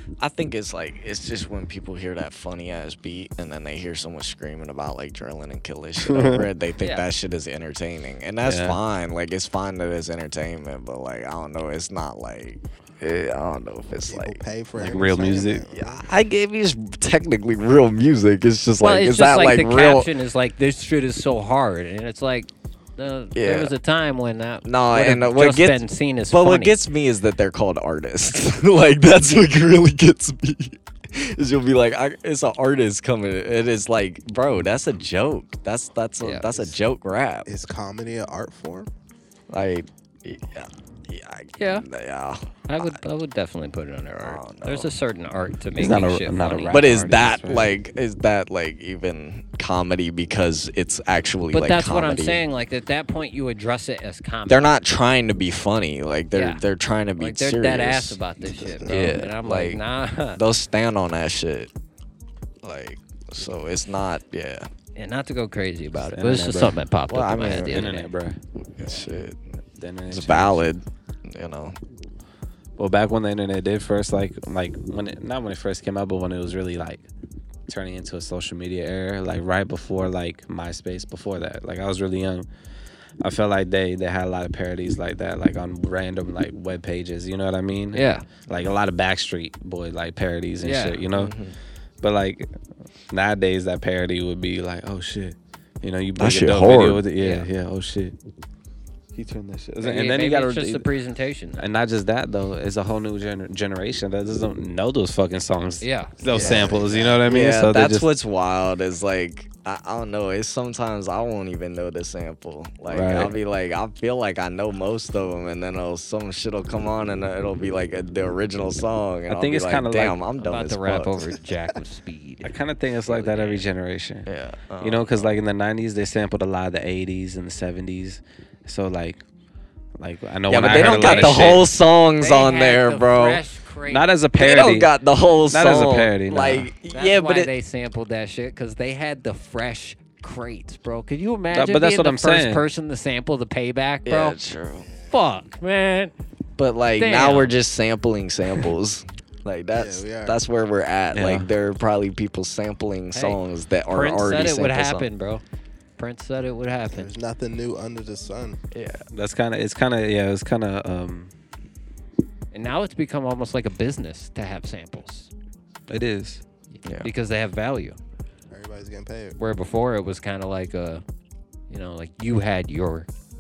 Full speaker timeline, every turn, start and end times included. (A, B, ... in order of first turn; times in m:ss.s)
0:00.2-0:14.4 A
0:06.0-0:06.4 B
0:06.8-0:07.1 C
0:08.4-0:08.8 B
0:14.0-0:16.1 D
0:14.8-0:15.6 B
0:15.7-0:20.1 A
0:18.8-0:26.8 C
0:23.3-0:23.7 A
0:24.6-0:37.5 A
0:36.2-0:36.5 C
0:37.4-0:38.9 D
0:39.5-0:43.0 A
0:41.6-0:41.8 C
0:42.7-0:46.9 C
0:44.2-0:44.9 A
0:45.8-0:47.7 B
0:46.7-0:52.4 A
0:51.5-0:54.8 C
0:54.5-0:58.2 A
0:56.3-0:56.6 C
0:57.2-1:00.4 C
0:58.4-0:59.1 D
0:58.8-0:59.8 A
1:00.3-1:01.7 A
1:02.6-1:04.7 A
1:04.9-1:08.0 C
1:06.0-1:06.8 B
1:07.1-1:09.4 A
1:07.6-1:08.4 B
1:09.8-1:10.6 B
1:10.1-1:11.8 A
1:12.8-1:17.0 B
1:17.7-1:22.5 B
1:23.2-1:31.3 B
1:27.9-1:28.3 C
1:30.6-1:31.0 C
1:31.1-1:31.6 A
1:32.0-1:32.5 B
1:33.1-1:38.2 B
1:36.2-1:37.0 A
1:37.2-1:37.5 C
1:39.1-1:40.9 B
1:39.8-1:41.6 C
1:41.6-1:48.1 B
1:45.8-1:46.7 C
1:46.3-1:47.0 D
1:46.4-2:01.3 A
1:52.9-1:53.4 B
1:59.3-2:00.2 B
2:00.4-2:03.7 C
2:02.4-2:04.2 B
2:04.2-2:05.3 A
2:04.8-2:09.2 B
2:10.0-2:11.7 B
2:10.5-2:13.4 A
2:10.7-2:11.6 C
2:12.2-2:14.1 C
2:13.9-2:14.9 B
2:14.3-2:17.5 A
2:15.5-2:16.7 B
2:16.9-2:24.4 C
2:21.5-2:22.6 B
2:24.0-2:24.9 A
2:24.8-2:25.2 D
2:25.1-2:26.1 C
2:26.6-2:35.1 A
2:27.0-2:27.6 C
2:29.7-2:30.4 D
2:31.1-2:31.5 B
2:33.1-2:35.4 C
2:36.0-2:37.1 C
2:36.9-2:38.6 D
2:38.7-2:39.0 A
2:39.1-2:41.3 B
2:42.5-2:45.3 C
2:45.9-2:46.4 B
2:46.8-2:47.1 A
2:47.0-2:48.0 C
2:48.5-2:49.4 D
2:49.4-2:51.0 C
2:51.7-2:53.1 C